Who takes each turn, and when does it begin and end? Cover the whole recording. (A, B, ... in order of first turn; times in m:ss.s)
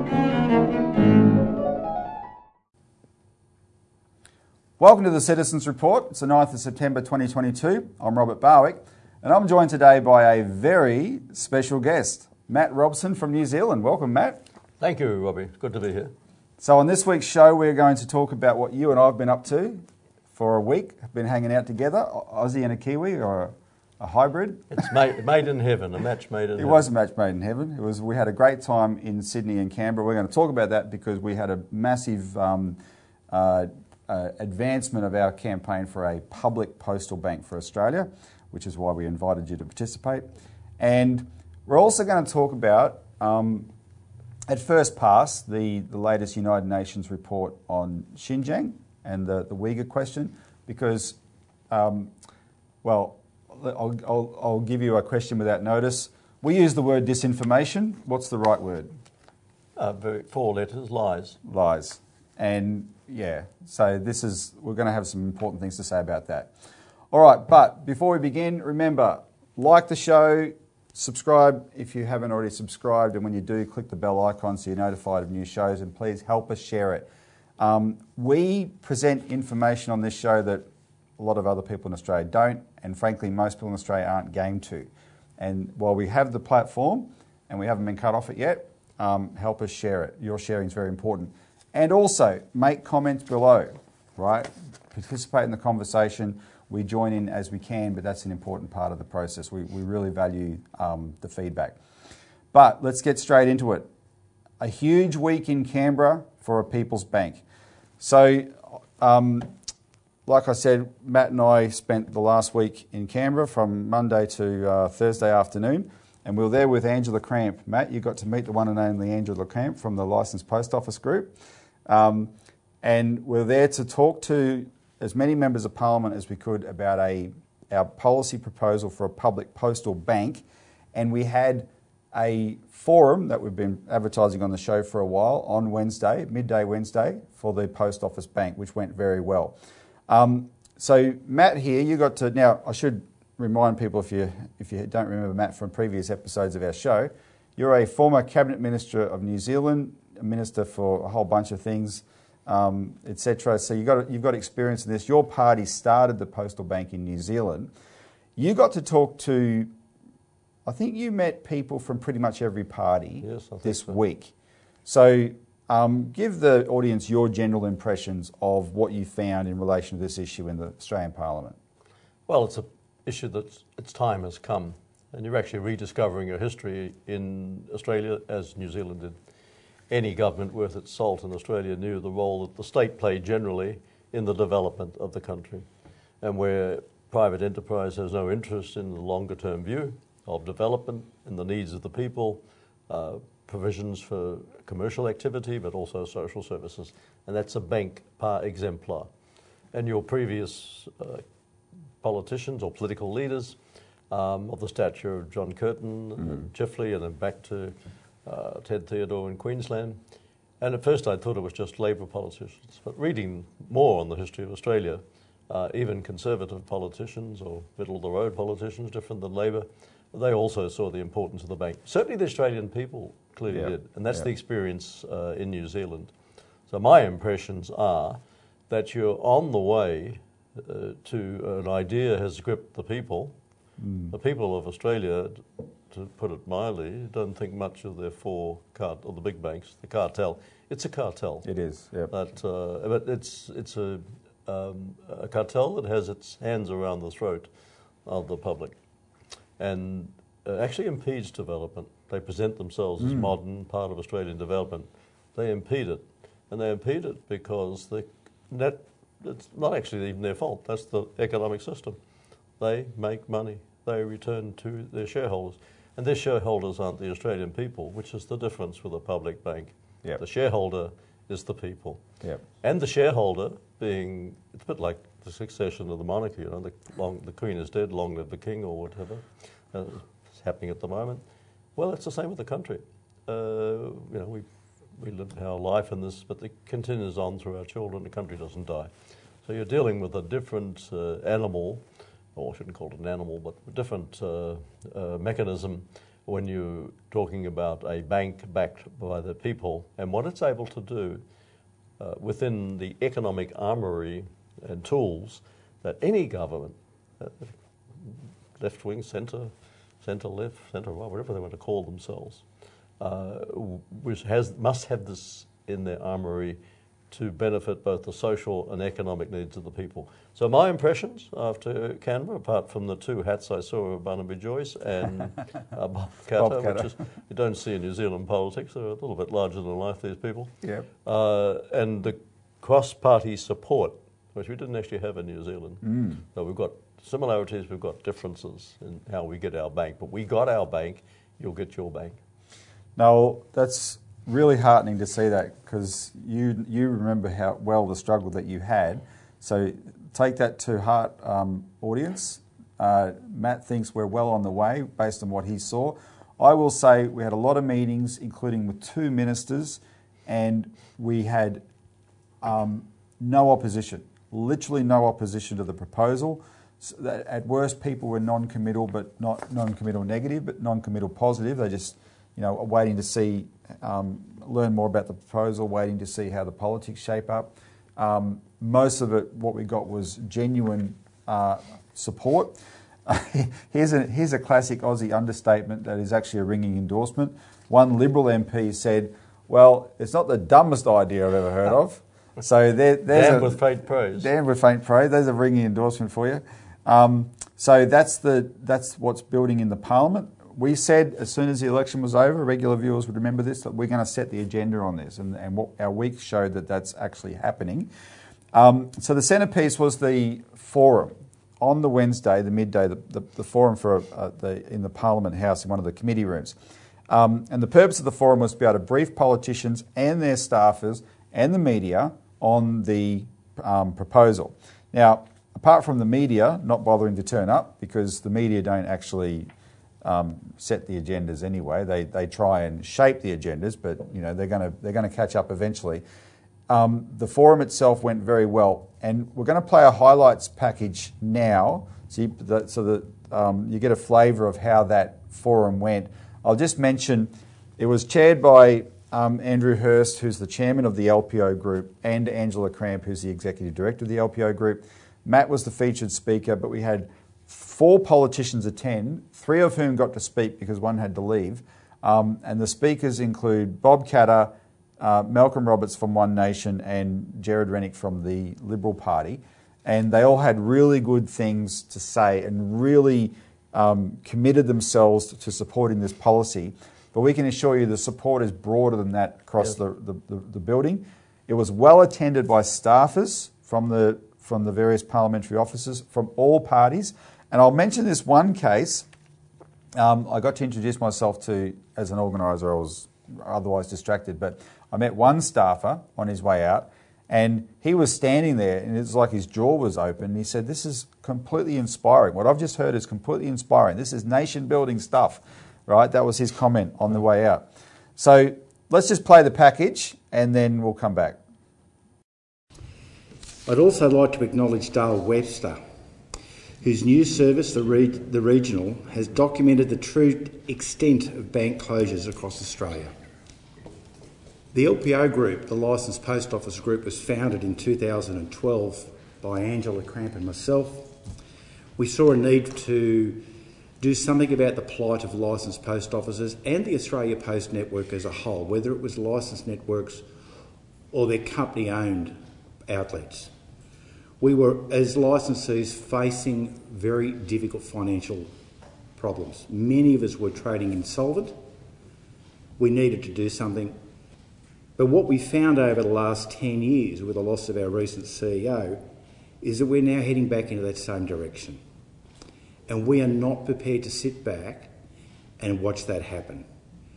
0:04.8-0:14.4 A
0:14.8-0:16.1 B
0:16.6-0:19.8 A
0:20.4-0:24.7 A
0:24.7-0:26.9 B
0:26.6-0:32.8 A
0:33.3-0:43.7 A
0:44.5-0:51.2 A
0:51.7-0:52.1 A
0:52.8-0:58.9 A
0:59.8-1:01.4 B
1:01.5-1:06.5 A
1:07.1-1:20.7 A
1:21.2-1:41.8 A
1:42.5-1:43.9 A
1:44.6-1:47.4 A
1:48.0-1:49.5 A
1:50.3-2:01.3 A
2:01.9-2:10.4 A
2:10.9-2:19.6 A
2:20.1-2:37.7 A
2:38.4-2:39.7 A
2:40.7-2:44.3 A
2:43.2-2:44.0 B
2:44.9-2:51.6 A
2:52.3-2:59.2 B
2:59.9-3:05.7 B
3:06.2-3:19.1 B
3:19.7-3:21.2 B
3:22.0-3:23.6 B
3:24.1-3:30.0 B
3:30.6-3:46.1 B
3:43.5-3:44.3 A
3:46.7-3:53.4 B
3:53.8-3:54.1 A
3:54.1-4:01.5 B
4:01.4-4:02.1 A
4:02.1-4:07.5 B
4:08.0-4:08.8 B
4:09.6-4:22.0 B
4:13.0-4:13.3 A
4:22.6-4:32.0 B
4:32.6-4:41.2 B
4:41.8-4:44.5 B
4:45.0-4:48.9 B
4:49.4-4:51.8 B
4:52.4-5:01.2 B
5:02.0-5:12.4 B
5:13.0-5:16.6 B
5:17.1-5:30.5 B
5:26.4-5:26.9 A
5:31.0-5:42.2 B
5:35.8-5:36.2 A
5:43.0-6:01.6 A
6:02.4-6:47.9 A
6:33.1-6:34.3 B
6:48.5-6:56.6 A
6:57.1-7:09.5 A
7:10.0-7:16.0 A
7:16.7-8:09.1 A
8:10.0-8:31.4 A
8:33.7-8:35.8 C
8:36.8-8:43.1 C
8:44.7-8:51.2 C
8:52.0-8:53.5 C
8:54.0-9:00.2 C
9:01.1-9:03.5 C
9:04.4-9:08.5 C
9:09.2-9:11.6 C
9:12.8-9:14.0 C
9:15.0-9:19.1 C
9:19.6-9:21.8 C
9:22.9-9:25.0 C
9:25.6-9:26.7 C